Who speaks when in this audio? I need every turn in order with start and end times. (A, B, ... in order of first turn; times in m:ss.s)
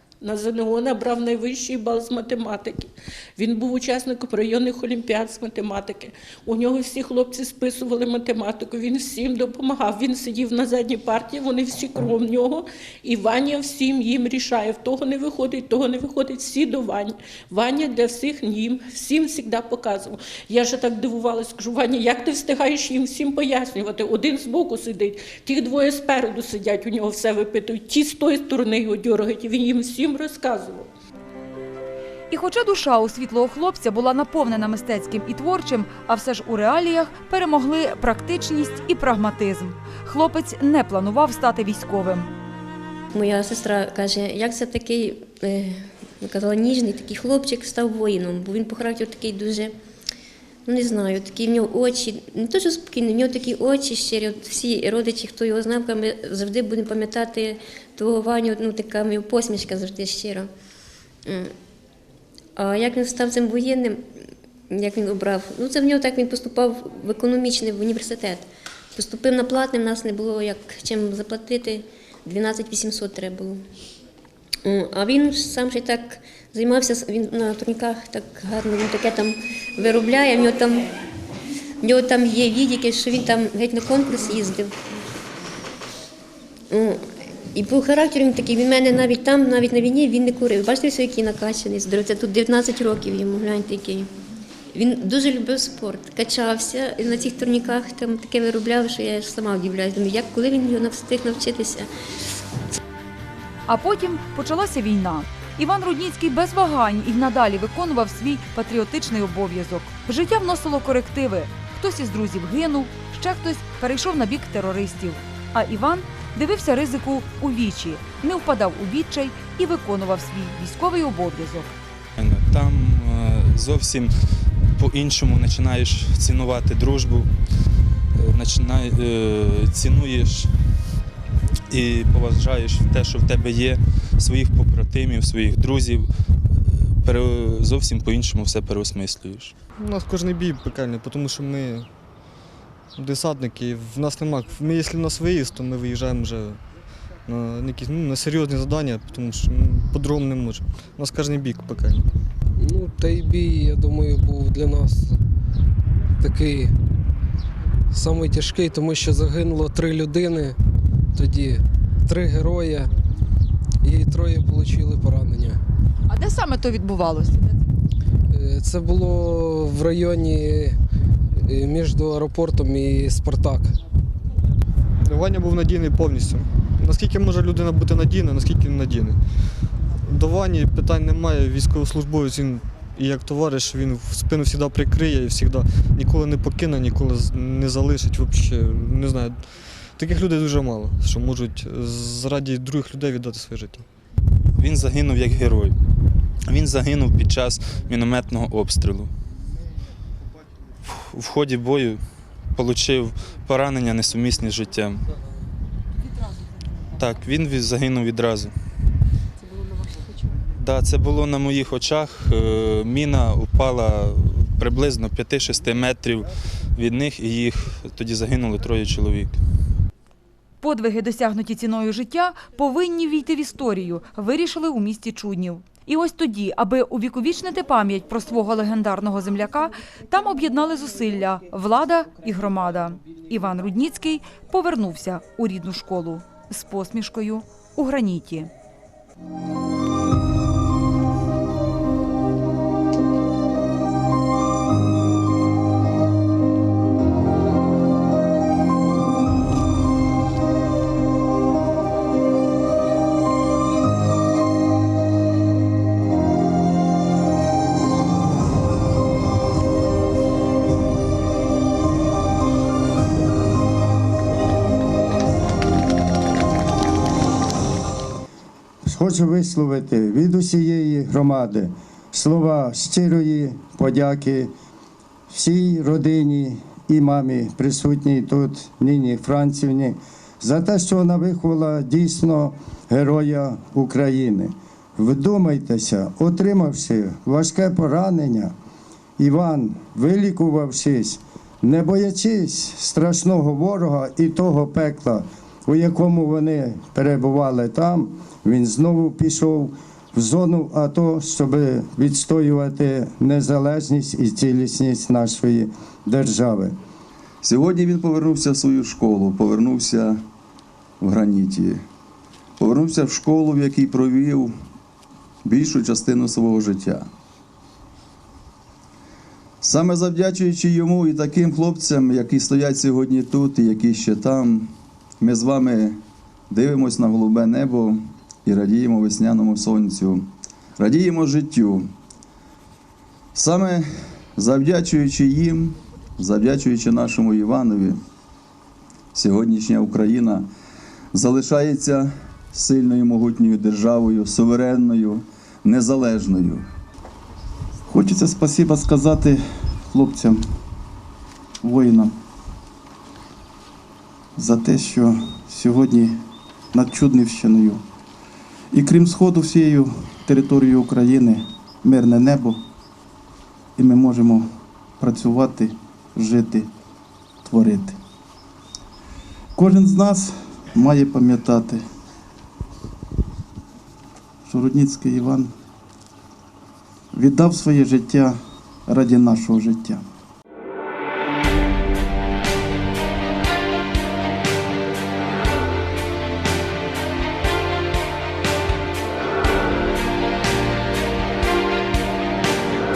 0:00.2-0:30.9 A
0:32.3-0:42.3 B
0:43.1-0:49.7 C
0:50.6-1:00.5 C
1:02.6-1:04.0 C
1:04.7-1:08.4 C
1:08.9-1:13.6 C
1:14.6-1:20.9 C
1:21.8-1:24.7 C
1:26.7-1:27.0 C
1:27.5-1:34.1 C
1:34.7-1:41.9 C
1:43.7-2:01.8 B
2:02.2-2:04.1 D
2:04.8-2:07.3 D
2:08.1-2:10.5 D
2:11.7-2:19.5 D
2:19.8-2:21.9 E
2:23.0-2:26.6 E
2:27.2-2:32.1 E
2:32.6-2:35.2 F
2:36.2-2:36.7 F
2:37.9-2:40.6 F
2:41.1-2:42.9 F
2:43.8-2:45.6 F
2:46.1-2:47.6 B
2:48.3-2:50.8 F
2:51.4-2:53.8 F
2:55.0-2:59.2 E
3:00.0-3:13.9 E
3:14.5-3:15.7 D
3:16.5-3:19.1 D
3:20.8-3:22.0 D
3:22.6-3:25.0 D
3:27.0-3:28.5 D
3:30.5-3:39.4 D
3:40.6-3:58.5 B
4:28.8-4:34.5 G
4:35.3-4:48.5 G
4:49.2-5:06.7 G
5:07.4-5:10.2 H
5:11.0-5:11.8 H
5:12.6-5:14.5 H
5:15.4-5:17.1 H
5:19.6-5:26.0 H
5:26.5-5:31.9 H
5:33.3-5:38.0 H
5:39.1-5:40.4 H
5:41.1-5:46.7 H
5:47.9-5:50.4 I
5:51.6-5:52.1 I
5:54.4-5:56.2 I
5:56.7-5:57.8 I
5:58.7-6:02.6 I
6:03.8-6:04.5 I
6:05.0-6:06.7 I
6:07.4-6:08.0 I
6:09.6-6:11.8 I
6:14.4-6:15.5 I
6:17.1-6:20.0 I